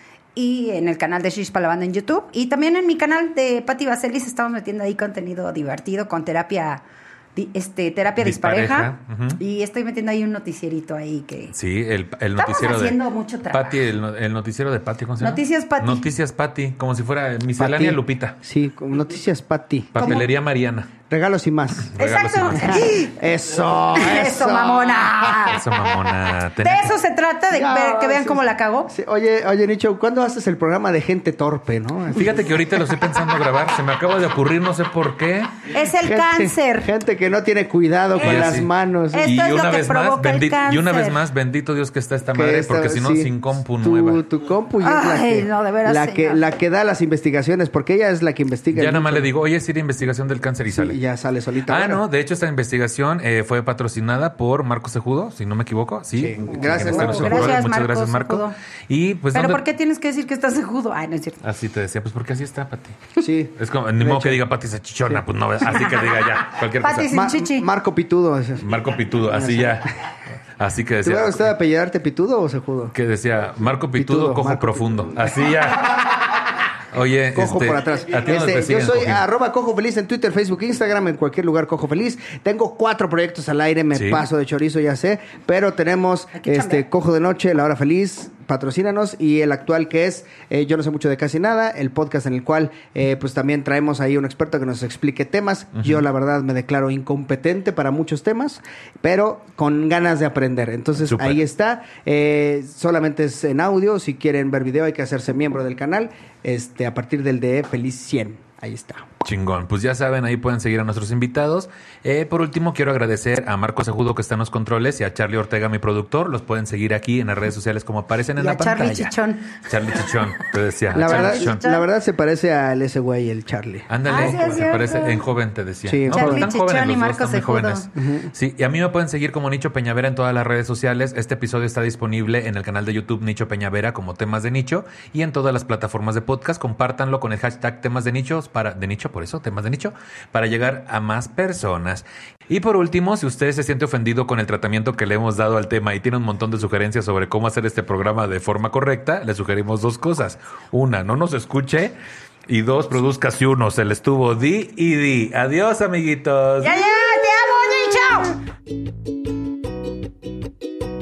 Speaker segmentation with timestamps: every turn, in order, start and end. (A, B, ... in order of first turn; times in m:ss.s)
0:00.4-0:06.8 A
0:07.4-0:11.5 A
0:08.2-0:09.4 B
0:11.5-0:13.0 B
0:12.4-0:13.9 A
0:13.5-0:18.4 B
0:15.2-0:16.1 A
0:17.6-0:20.2 C
0:19.9-0:20.9 B
0:20.0-0:20.2 A
0:21.1-0:21.9 C
0:21.9-0:22.8 B
0:22.0-0:23.2 A
0:22.7-0:25.2 C
0:23.9-0:25.6 A
0:25.4-0:27.0 B
0:26.6-0:28.9 A
0:27.5-0:32.5 C
0:32.1-0:35.6 B
0:35.7-0:36.9 A
0:36.0-0:39.3 C
0:38.2-0:38.5 A
0:38.2-0:38.7 B
0:39.1-0:41.2 A
0:39.2-0:44.2 B
0:42.3-0:49.3 C
0:44.8-0:46.4 A
0:48.7-0:51.0 B
0:50.7-0:52.0 C
0:51.7-0:59.6 B
0:56.2-0:57.6 C
0:56.7-0:58.6 A
0:59.3-1:01.4 A
1:01.4-1:03.0 B
1:03.2-1:04.4 C
1:03.6-1:07.1 B
1:06.8-1:07.7 A
1:07.1-1:08.6 C
1:08.6-1:09.9 B
1:09.3-1:09.8 C
1:10.6-1:11.5 B
1:11.0-1:12.9 C
1:12.9-1:16.4 B
1:14.0-1:15.0 C
1:16.9-1:19.2 B
1:17.3-1:49.1 C
1:23.9-1:24.2 B
1:26.3-1:26.9 A
1:41.0-1:41.4 B
1:49.2-2:01.6 B
1:58.4-1:59.6 A
2:00.9-2:01.9 A
2:00.9-2:04.6 C
2:03.9-2:32.0 B
2:04.1-2:05.2 A
2:05.9-2:06.5 C
2:06.1-2:07.9 A
2:08.0-2:08.3 C
2:32.5-2:36.8 B
2:36.6-2:38.4 A